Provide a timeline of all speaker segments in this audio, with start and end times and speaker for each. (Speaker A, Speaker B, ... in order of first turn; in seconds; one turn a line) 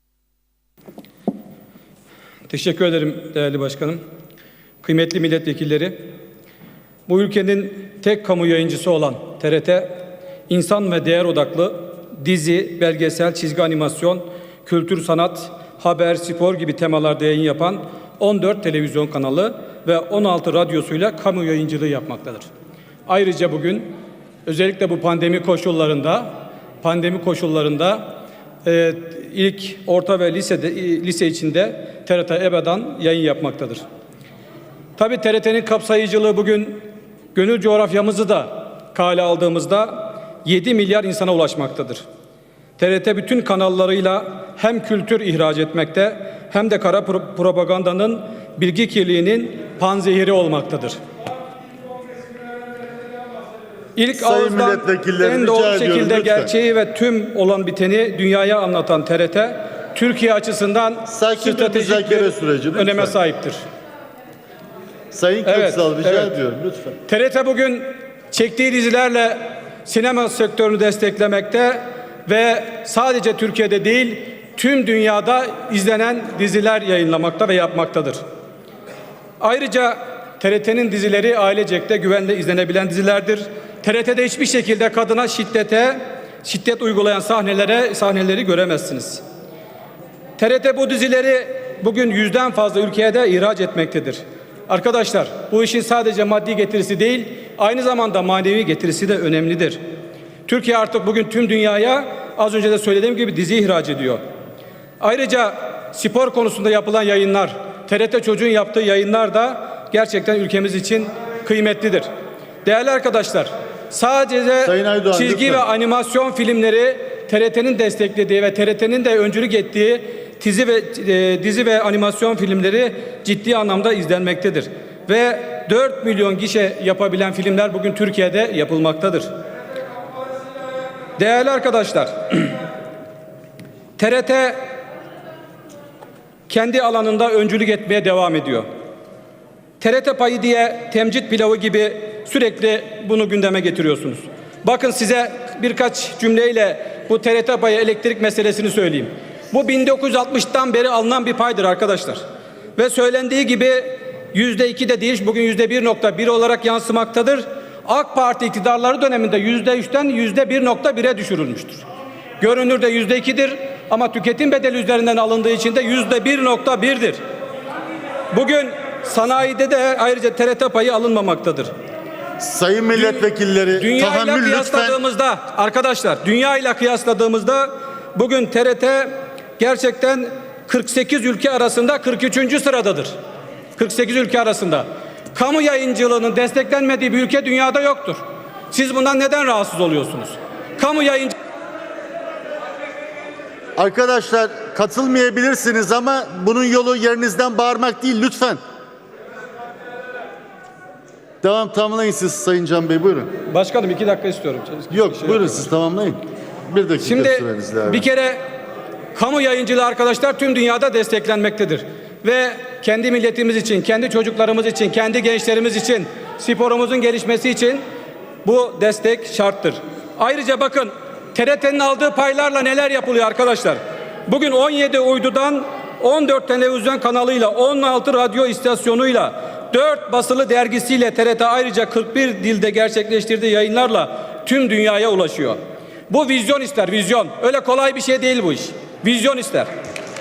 Speaker A: 2.5-4.0
Speaker A: 4.8-6.0
Speaker A: 7.1-22.5
Speaker A: 23.1-23.9
Speaker A: 24.5-26.3
Speaker A: 26.8-28.1
Speaker A: 28.6-33.8
Speaker A: 35.0-36.8
Speaker A: 37.3-42.0
Speaker A: 42.8-51.0
Speaker A: 54.0-63.6
Speaker B: 54.1-56.5
Speaker B: 61.1-63.1
Speaker B: 65.1-67.0
Speaker A: 65.4-66.3
Speaker A: 67.1-78.2
Speaker A: 79.4-89.2
Speaker A: 90.4-99.8
Speaker A: 100.5-104.2
Speaker A: 105.0-112.1
Speaker A: 112.6-129.3
Speaker B: 114.6-115.6
Speaker A: 131.2-132.6
Speaker A: 134.0-134.6
Speaker A: 136.5-138.7
Speaker A: 139.8-152.2
Speaker A: 152.8-161.8
Speaker A: 162.4-167.2
Speaker A: 168.3-171.7
Speaker B: 172.4-175.0
Speaker A: 172.9-183.1
Speaker A: 183.8-191.3
Speaker B: 193.8-198.6
Speaker B: 201.4-203.3
Speaker A: 203.4-205.7
Speaker B: 204.9-208.1
Speaker A: 207.0-208.4
Speaker A: 209.1-217.8
Speaker A: 218.4-235.6
Speaker A: 236.1-239.7